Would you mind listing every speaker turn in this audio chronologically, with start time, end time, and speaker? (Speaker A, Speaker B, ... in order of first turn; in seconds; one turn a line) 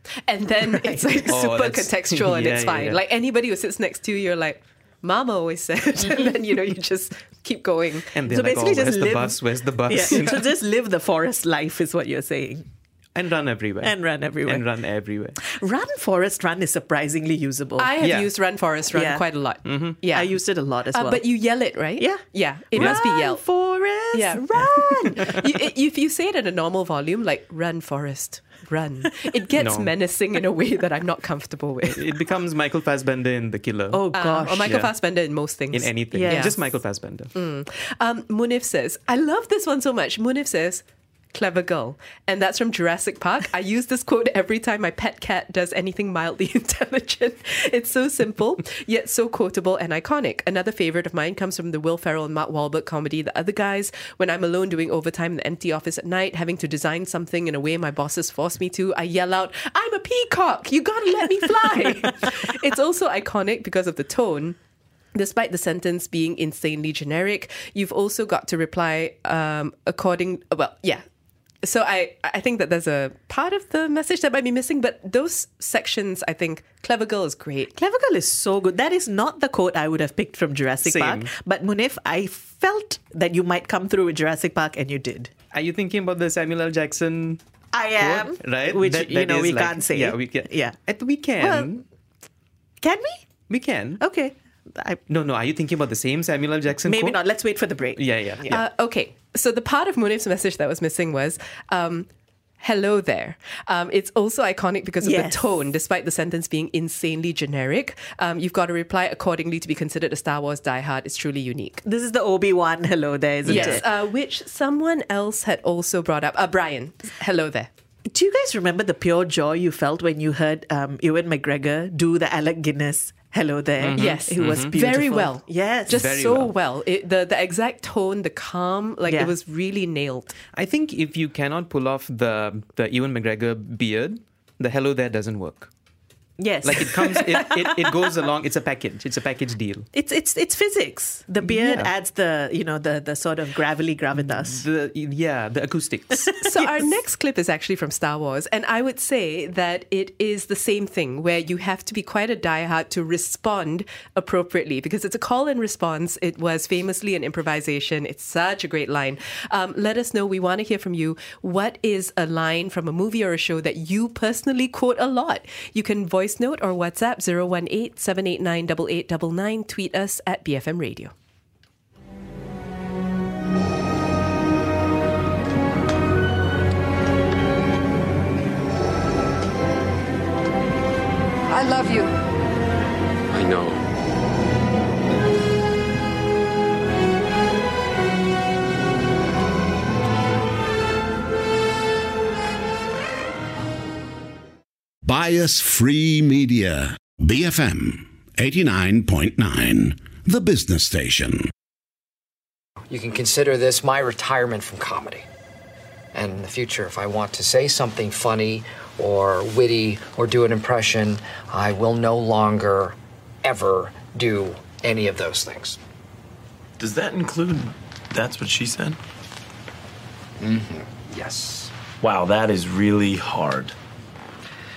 Speaker A: 0.2-8.1
Speaker B: 1.2-3.0
Speaker B: 8.1-10.5
Speaker C: 8.3-12.7
Speaker B: 13.1-15.4
Speaker C: 13.8-14.6
Speaker C: 15.4-18.0
Speaker A: 17.8-20.3
Speaker B: 18.0-18.3
Speaker C: 18.9-19.2
Speaker B: 19.6-20.0
Speaker C: 20.1-21.2
Speaker A: 20.9-23.4
Speaker C: 22.0-25.4
Speaker A: 24.1-32.0
Speaker B: 29.6-29.9
Speaker B: 31.9-34.0
Speaker C: 33.9-34.7
Speaker A: 34.1-36.5
Speaker B: 34.6-34.9
Speaker B: 35.7-37.3
Speaker C: 36.1-36.5
Speaker A: 37.3-64.6
Speaker A: 65.1-71.0
Speaker A: 71.6-77.7
Speaker C: 77.7-85.3
Speaker B: 80.8-81.3
Speaker B: 85.5-87.4
Speaker C: 87.7-90.8
Speaker B: 88.0-91.8
Speaker C: 91.4-91.7
Speaker C: 92.8-93.2
Speaker B: 93.5-94.0
Speaker C: 94.0-95.0
Speaker B: 95.1-97.2
Speaker C: 96.8-98.6
Speaker B: 98.0-98.6
Speaker A: 98.5-102.1
Speaker A: 102.6-111.8
Speaker C: 105.0-105.5
Speaker C: 111.8-113.8
Speaker B: 113.5-113.8
Speaker A: 113.5-117.7
Speaker C: 118.1-126.1
Speaker B: 123.8-124.7
Speaker A: 124.0-130.3
Speaker B: 125.9-126.5
Speaker C: 129.1-129.3
Speaker B: 130.5-135.7
Speaker C: 136.4-138.1
Speaker B: 136.6-139.9
Speaker C: 139.9-144.6
Speaker B: 141.4-141.9
Speaker B: 144.2-146.4
Speaker A: 146.4-171.1
Speaker D: 195.0-201.5
Speaker E: 202.9-205.2
Speaker E: 206.1-215.8
Speaker F: 216.8-219.0
Speaker E: 220.4-221.7
Speaker F: 222.0-223.7